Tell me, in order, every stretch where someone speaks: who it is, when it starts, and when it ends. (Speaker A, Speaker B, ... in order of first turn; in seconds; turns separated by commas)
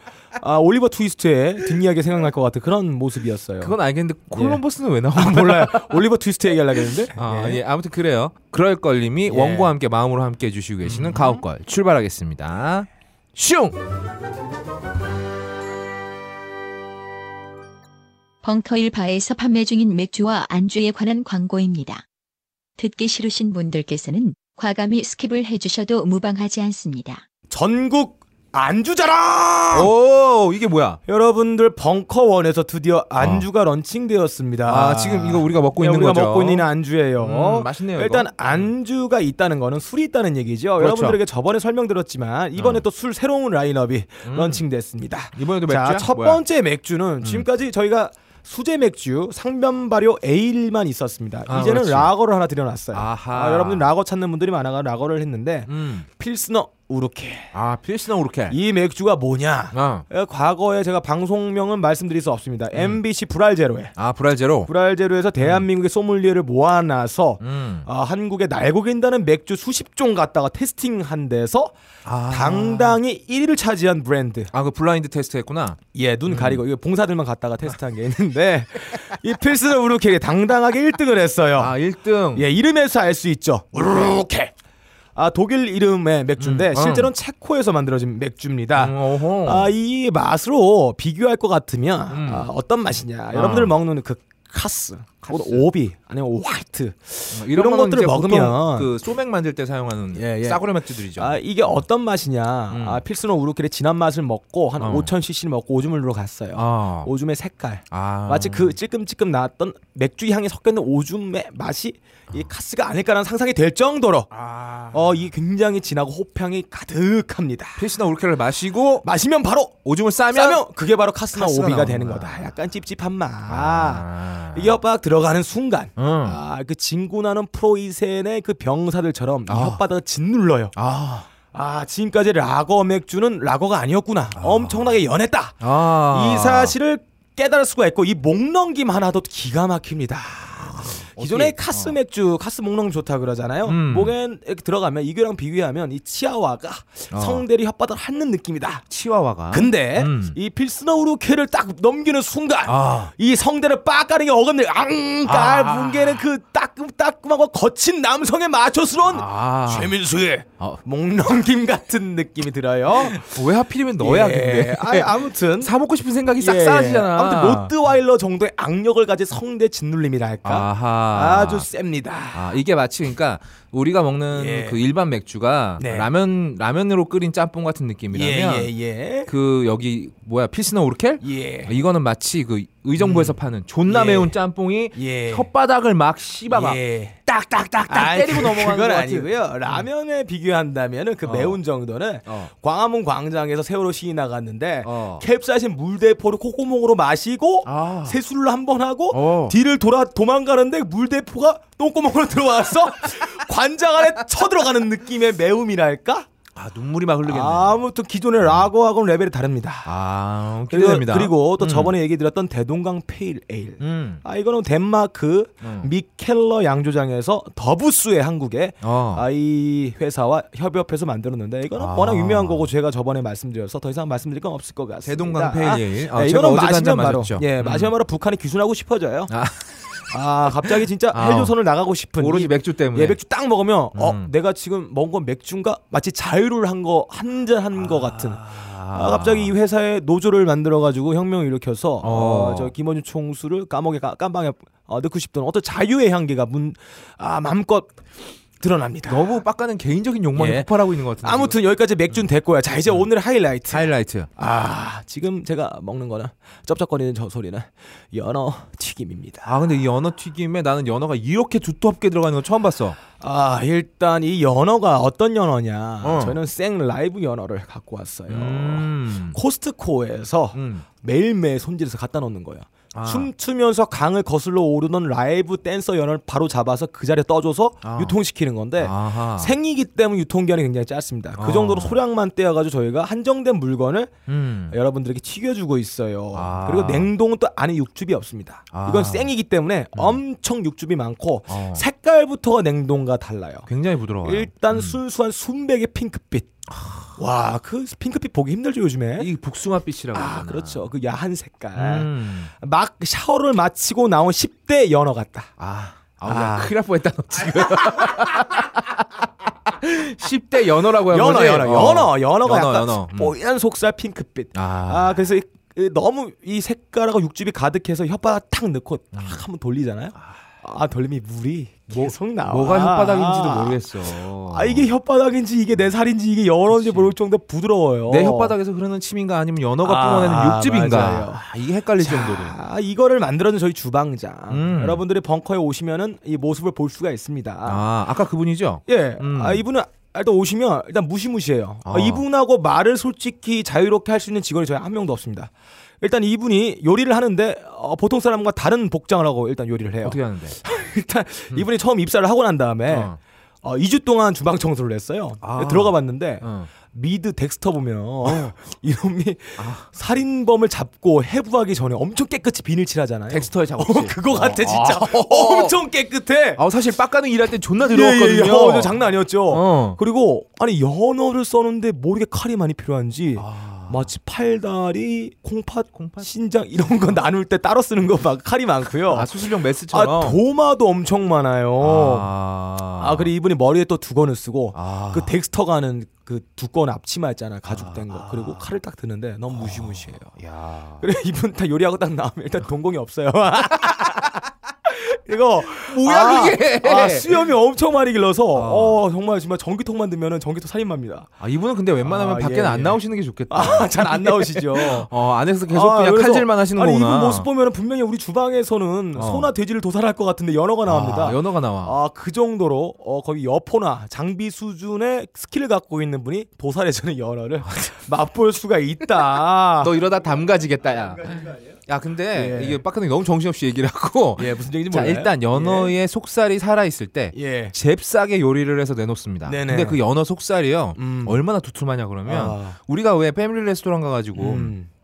Speaker A: 0.4-3.7, Speaker B: 3.6-6.0, Speaker A: 4.3-4.6, Speaker A: 5.1-7.6, Speaker B: 7.1-13.8, Speaker A: 9.3-9.7, Speaker A: 10.8-11.4, Speaker C: 18.4-22.0, Speaker C: 22.8-27.2, Speaker A: 27.5-29.9, Speaker B: 29.7-31.0, Speaker A: 31.1-57.5, Speaker B: 33.2-33.5, Speaker B: 34.7-36.7, Speaker B: 37.2-38.7, Speaker B: 40.8-41.2, Speaker B: 42.5-42.8, Speaker B: 44.2-44.6, Speaker B: 45.3-46.4, Speaker B: 47.2-47.5, Speaker B: 51.5-52.1, Speaker B: 52.9-53.9, Speaker B: 55.7-56.0, Speaker B: 57.5-58.6, Speaker A: 58.5-63.9, Speaker B: 59.7-60.0, Speaker B: 62.7-63.0, Speaker B: 64.0-64.7, Speaker A: 64.7-71.7, Speaker B: 65.4-65.7, Speaker B: 67.4-67.9, Speaker B: 72.0-73.0, Speaker A: 72.3-74.5, Speaker B: 74.5-76.6, Speaker A: 75.9-81.7, Speaker B: 81.5-82.5, Speaker A: 82.3-84.5, Speaker A: 85.2-98.9, Speaker B: 86.4-87.1, Speaker B: 88.8-89.7, Speaker B: 92.1-92.5, Speaker B: 93.3-93.7, Speaker B: 95.2-95.7, Speaker B: 97.3-101.4, Speaker A: 100.1-114.3, Speaker B: 102.7-103.0, Speaker B: 104.8-105.1, Speaker B: 106.5-107.1, Speaker B: 107.9-108.8, Speaker B: 114.3-115.3, Speaker A: 114.9-117.8, Speaker B: 117.8-119.1, Speaker A: 119.0-119.8, Speaker B: 119.8-120.6, Speaker A: 120.3-130.7, Speaker B: 121.3-122.4, Speaker B: 123.5-124.8, Speaker B: 126.0-126.4, Speaker B: 129.5-129.8, Speaker B: 130.8-131.3, Speaker A: 131.5-148.8, Speaker B: 134.4-134.9, Speaker B: 135.6-136.7, Speaker B: 141.1-142.0, Speaker B: 143.6-144.1, Speaker B: 147.1-147.4, Speaker B: 148.9-150.4, Speaker A: 149.5-163.4, Speaker B: 152.7-153.1, Speaker B: 155.2-156.2, Speaker B: 159.1-159.9, Speaker B: 162.9-167.7, Speaker A: 164.0-165.7, Speaker A: 166.4-172.6, Speaker B: 170.4-171.7, Speaker B: 172.3-178.7, Speaker A: 174.3-174.8, Speaker A: 175.8-176.1, Speaker A: 178.1-179.3, Speaker B: 179.2-189.9, Speaker A: 181.2-181.7, Speaker A: 183.0-184.3, Speaker A: 184.9-185.5, Speaker A: 186.5-187.2, Speaker A: 187.8-206.3, Speaker B: 191.2-191.6, Speaker B: 192.2-192.5, Speaker B: 194.8-195.2, Speaker B: 197.6-198.2, Speaker B: 199.1-199.6, Speaker B: 206.5-207.8, Speaker A: 207.2-209.9, Speaker B: 208.4-208.7, Speaker B: 209.8-211.9, Speaker A: 210.7-229.3, Speaker B: 213.8-214.2, Speaker B: 215.6-215.9, Speaker B: 218.8-219.2, Speaker B: 221.7-222.7, Speaker B: 225.0-227.9, Speaker B: 229.3-230.1, Speaker A: 230.1-247.9, Speaker B: 230.6-231.5, Speaker B: 232.2-233.2, Speaker B: 233.9-234.3, Speaker B: 237.8-239.5, Speaker B: 242.0-242.7, Speaker A: 248.6-249.3, Speaker B: 249.1-251.6, Speaker A: 250.3-250.7, Speaker A: 251.2-259.5, Speaker B: 253.7-254.3, Speaker B: 259.4-263.0, Speaker A: 263.2-284.1, Speaker B: 266.0-266.4, Speaker B: 268.3-269.4, Speaker B: 270.5-270.8, Speaker B: 272.9-273.3, Speaker B: 277.8-278.2, Speaker B: 278.8-279.5, Speaker B: 281.4-282.0, Speaker B: 284.3-284.8, Speaker A: 284.7-293.7, Speaker B: 286.3-287.1, Speaker B: 288.7-289.3, Speaker B: 289.9-290.2, Speaker B: 291.5-291.8, Speaker B: 293.7-295.0, Speaker A: 294.2-296.5, Speaker B: 296.7-297.1, Speaker A: 297.2-299.3, Speaker B: 299.2-300.8, Speaker A: 300.1-305.5, Speaker B: 301.8-302.5, Speaker B: 305.6-309.1, Speaker A: 306.2-306.7, Speaker A: 307.5-308.3, Speaker B: 309.6-313.3, Speaker A: 311.1-323.8, Speaker B: 314.5-315.2, Speaker B: 319.1-319.4, Speaker B: 321.9-324.9, Speaker A: 324.4-328.5, Speaker B: 326.7-327.1, Speaker B: 328.1-332.6, Speaker A: 329.8-331.4, Speaker A: 332.0-337.8, Speaker B: 334.5-335.0, Speaker B: 337.6-339.6, Speaker A: 338.9-366.6, Speaker B: 341.8-342.2, Speaker B: 350.0-350.6, Speaker B: 352.9-353.2, Speaker B: 355.4-356.7, Speaker B: 358.2-358.5, Speaker B: 359.6-359.9, Speaker B: 363.3-365.8, Speaker B: 366.6-369.0, Speaker A: 367.8-379.3, Speaker B: 369.5-370.0, Speaker B: 373.4-374.1, Speaker B: 375.9-376.3, Speaker B: 379.1-380.4, Speaker A: 379.9-382.3, Speaker B: 381.8-383.3, Speaker A: 383.0-390.3, Speaker B: 384.7-385.3, Speaker B: 387.7-388.6, Speaker B: 389.5-391.0, Speaker A: 391.0-401.3, Speaker B: 393.8-394.2, Speaker B: 395.8-397.5, Speaker B: 398.5-399.0, Speaker B: 401.4-407.5, Speaker A: 402.0-405.1, Speaker A: 405.7-419.9, Speaker B: 409.1-409.5, Speaker B: 410.9-412.0, Speaker B: 419.8-434.7, Speaker A: 421.2-421.7, Speaker A: 422.3-422.8, Speaker A: 424.4-425.9, Speaker A: 427.3-427.7, Speaker A: 429.4-430.0, Speaker A: 430.9-431.4, Speaker A: 432.2-432.8, Speaker A: 434.4-434.9